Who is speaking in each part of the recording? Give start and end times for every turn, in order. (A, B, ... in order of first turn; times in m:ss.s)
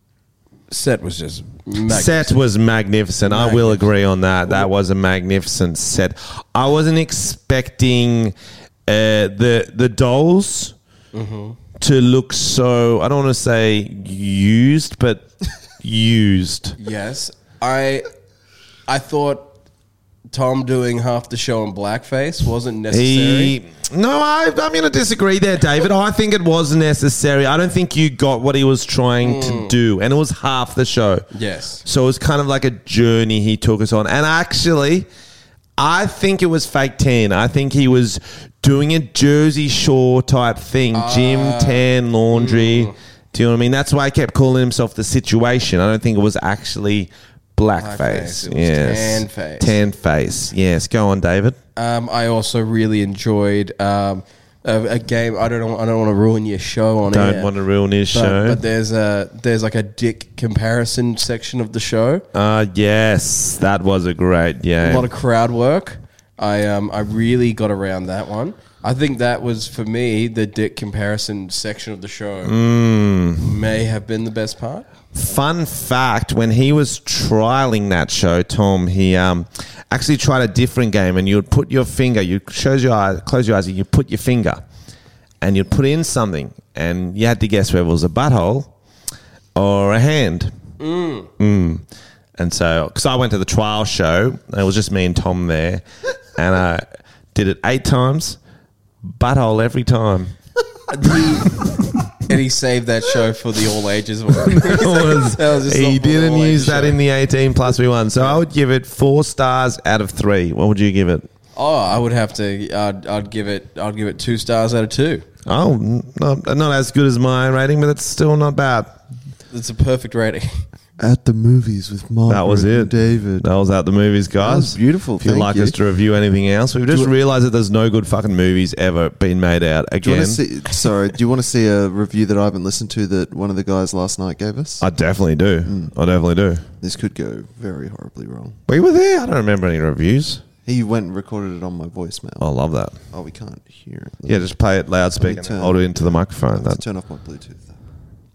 0:00.7-0:02.4 A
0:01.9-0:08.4 B
0:03.3-0:03.9 A
0:08.9-0:10.8 B
0:11.1-0:11.6 A
0:11.8-0:15.3 B
0:15.8-0:16.8 B
0:16.8-0:18.1 A
0:18.9-0:19.6 A
0:20.3-0:23.6 A
0:22.9-0:31.3 B
0:29.2-0:29.7 A
0:31.3-0:31.8 A
0:31.8-0:35.1 B
0:35.8-0:51.6 B
0:40.9-0:43.0 A
0:47.8-0:49.8 A
0:51.8-0:57.5 A
0:57.1-0:58.6 B
0:58.1-1:02.2 A
1:02.3-1:05.1 B
1:04.8-1:12.6 A
1:12.4-1:13.5 B
1:13.4-1:14.9 A
1:15.1-1:24.6 B
1:25.4-1:28.7 B
1:29.6-1:30.5 B
1:30.8-1:31.3 A
1:31.4-1:31.8 B
1:32.4-1:35.8 B
1:36.4-1:38.4 B
1:39.1-1:40.4 B
1:40.9-1:41.6 A
1:42.2-1:47.0 A
1:44.5-1:51.3 B
1:51.6-1:55.2 A
1:55.5-1:59.0 B
1:59.5-2:00.6 A
2:01.0-2:03.5 C
2:02.3-2:10.4 B
2:04.4-2:05.8 C
2:10.0-2:14.8 C
2:14.8-2:16.6 B
2:15.6-2:15.9 C
2:16.8-2:18.6 C
2:18.7-2:20.4 B
2:20.6-2:22.5 C
2:22.4-2:23.0 B
2:23.1-2:24.5 C
2:24.3-2:26.8 B
2:25.2-2:25.9 C
2:26.5-2:27.8 C